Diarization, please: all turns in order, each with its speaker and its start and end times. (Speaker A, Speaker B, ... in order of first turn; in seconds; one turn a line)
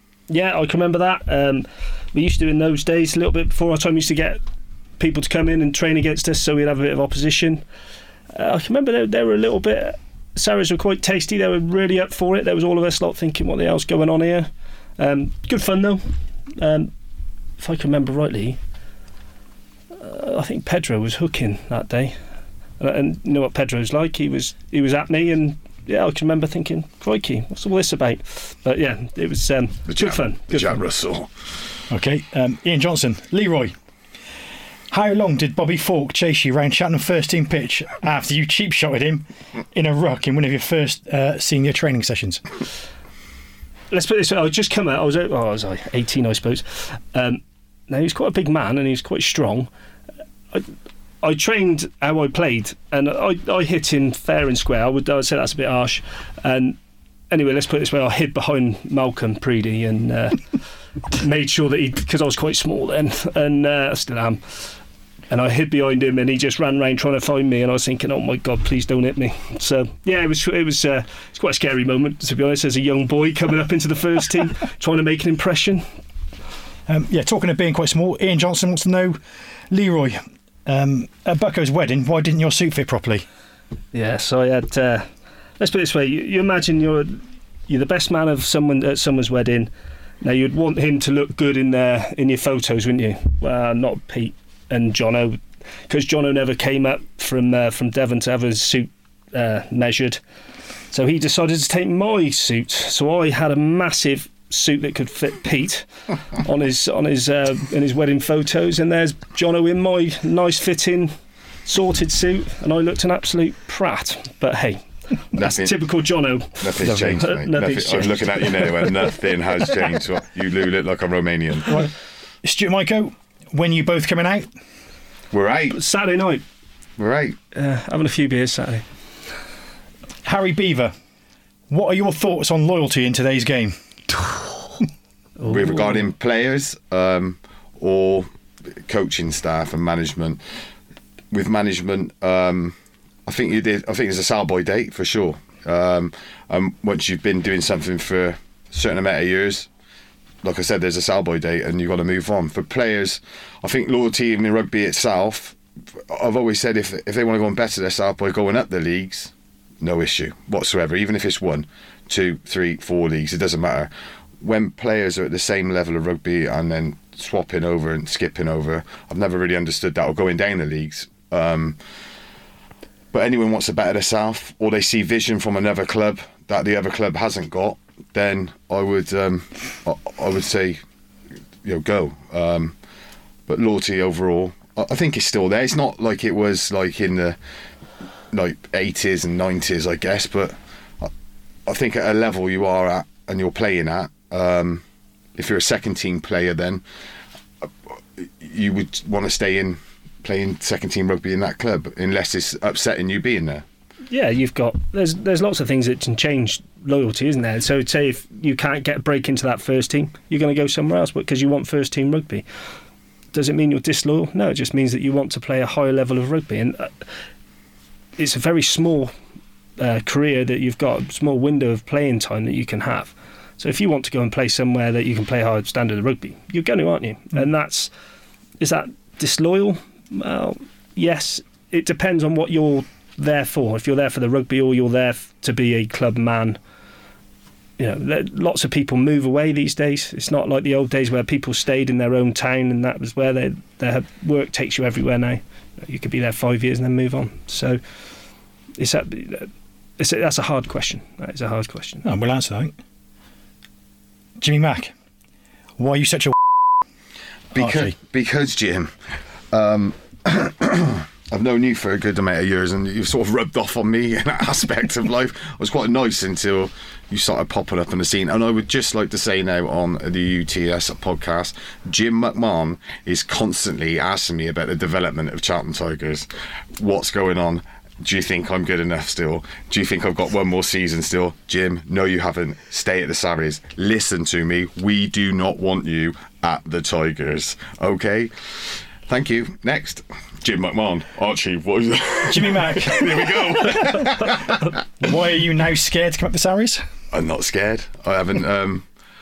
Speaker A: 0.3-4.4
Speaker A: 5.0-7.6
Speaker A: 8.3-16.0
Speaker A: 16.6-16.9
Speaker A: 17.6-18.6
Speaker A: 19.9-22.1
Speaker A: 22.8-30.8
Speaker B: 29.9-31.3
Speaker C: 31.9-33.7
Speaker C: 34.9-42.4
Speaker A: 43.9-49.7
Speaker A: 51.2-56.8
Speaker A: 57.3-60.4
Speaker A: 61.1-64.7
Speaker A: 65.3-75.8
Speaker C: 76.9-79.2
Speaker C: 79.7-83.2
Speaker A: 83.9-85.1
Speaker A: 85.6-89.7
Speaker A: 90.2-100.2
Speaker A: 100.9-111.1
Speaker A: 111.7-119.0
Speaker B: 115.3-115.8
Speaker B: 116.6-121.8
Speaker C: 116.8-117.3
Speaker C: 122.4-124.5
Speaker B: 125.3-125.8
Speaker A: 125.7-126.4
Speaker B: 127.0-127.3
Speaker A: 127.5-128.8
Speaker C: 130.2-130.9
Speaker C: 131.7-133.7
Speaker A: 135.4-136.0
Speaker B: 135.4-140.4
Speaker B: 141.3-142.7
Speaker B: 143.2-149.7
Speaker B: 150.4-171.8
Speaker B: 173.1-180.8
Speaker B: 181.6-182.7
Speaker B: 183.5-187.4
Speaker B: 188.3-191.1
Speaker B: 191.7-194.8
Speaker B: 195.3-196.8
Speaker B: 197.6-203.6
Speaker A: 204.1-212.4
Speaker A: 213.3-217.0
Speaker A: 218.2-219.1
Speaker A: 219.8-227.9
Speaker A: 228.6-236.6
Speaker A: 237.8-247.8
Speaker A: 248.8-252.0
Speaker C: 252.0-252.7
Speaker C: 254.4-254.9
Speaker C: 255.8-256.4
Speaker B: 257.5-258.9
Speaker C: 257.5-257.9
Speaker B: 259.5-294.6
Speaker C: 292.3-294.1
Speaker C: 295.0-296.8
Speaker B: 297.1-298.9